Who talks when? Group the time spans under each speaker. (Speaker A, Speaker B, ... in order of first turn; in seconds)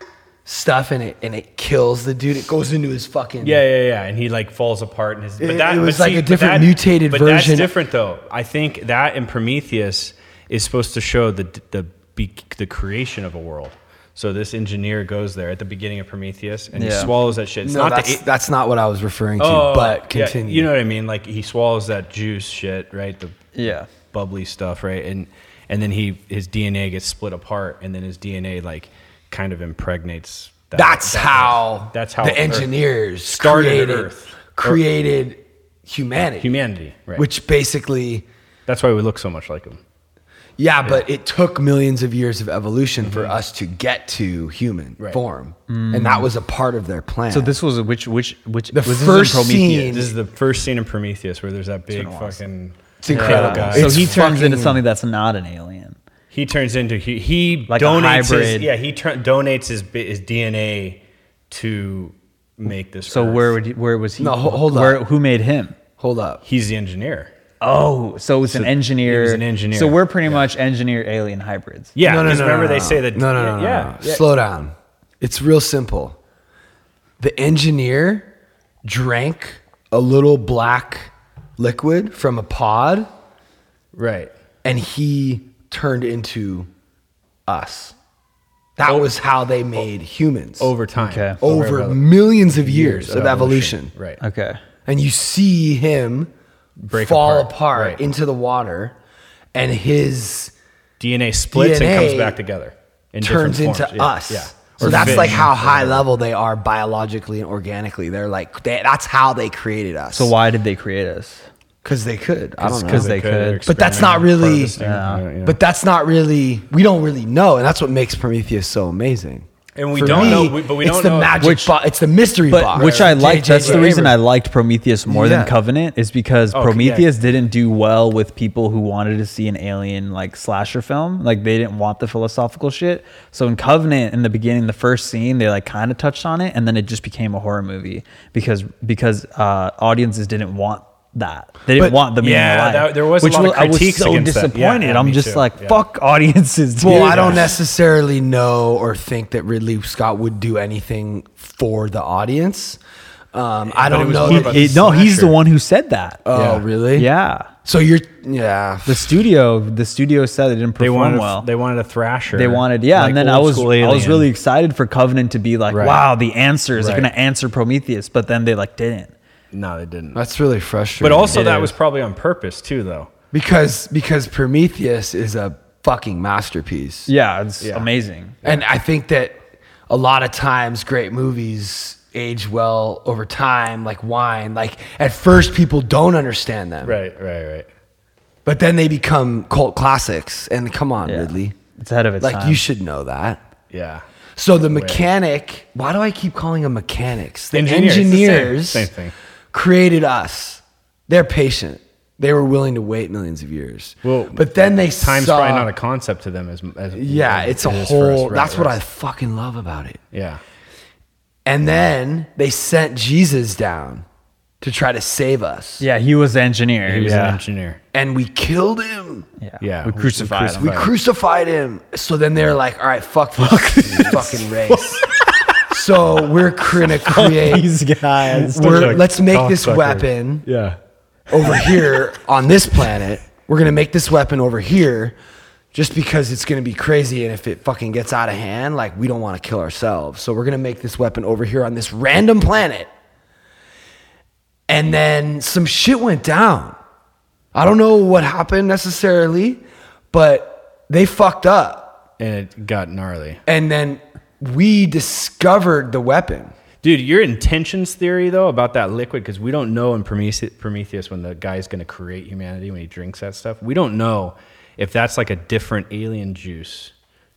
Speaker A: 0.4-3.6, 5.4-7.7, 17.6-20.7, 30.7-36.5, 37.1-38.2, 40.6-47.5, 48.7-50.1, 53.0-54.8, 64.2-65.0, 66.0-66.4, 72.0-76.2, 77.2-78.3, 78.8-83.1, 84.6-86.7, 87.5-88.0, 88.8-90.7, 91.4-93.9, 94.8-96.3, 96.9-98.9, 99.5-100.5, 101.5-102.4, 103.2-110.3, 111.8-114.8, 115.4-124.2, 125.1-125.5, 141.8-142.0, 146.8-152.8, 153.3-155.3, 156.2-157.1, 157.6-159.2, 170.1-171.5, 173.3-177.1, 178.4-187.0, 188.4-191.5, 192.2-193.4, 194.4-198.9, 199.5-205.7, 206.9-210.0, 211.4-214.0, 214.6-215.8, 217.9-219.3, 220.6-225.0, 225.7-227.7, 228.5-230.4, 231.3-235.2, 235.7-242.9, 244.7-246.8, 247.5-252.0, 253.5-256.5
Speaker B: 3.4-18.2, 19.4-23.5, 24.1-32.7, 33.3-34.8, 36.4-37.2, 38.7-39.8, 43.0-43.3, 49.9-54.2, 56.3-63.5, 66.4-67.3, 68.5-70.4, 72.0-74.2, 83.9-84.3, 90.6-94.2, 96.8-98.0, 101.0-106.0, 112.8-115.6, 119.8-121.4, 122.7-123.9, 126.5-127.1, 142.2-145.8, 146.8-147.5, 153.7-155.3, 156.3-156.6, 160.8-164.3, 165.7-166.0, 166.8-167.1, 169.5-170.2, 171.0-173.1, 177.6-177.9, 186.8-187.7, 193.7-194.0, 194.7-195.0, 197.5-199.1, 204.0-208.8, 210.1-210.4, 216.8-217.8, 219.6-220.9, 228.3-230.8, 231.4-231.7, 252.2-253.4, 256.8-266.9
Speaker C: 16.7-17.1, 23.5-23.9, 45.7-46.3, 47.3-50.0, 51.9-52.4, 53.1-56.0, 57.7-58.7, 63.1-65.8, 67.6-72.0, 91.0-91.4, 94.2-94.6, 104.8-105.5, 110.1-111.5, 112.6-113.6, 114.8-115.2, 120.0-120.5, 121.4-121.7, 122.5-147.4, 153.9-156.2, 156.9-157.5, 158.8-161.5, 162.3-169.1, 171.3-171.7, 177.1-178.3, 191.0-192.6, 215.8-217.4, 219.4-220.8, 223.4-225.6, 226.8-229.0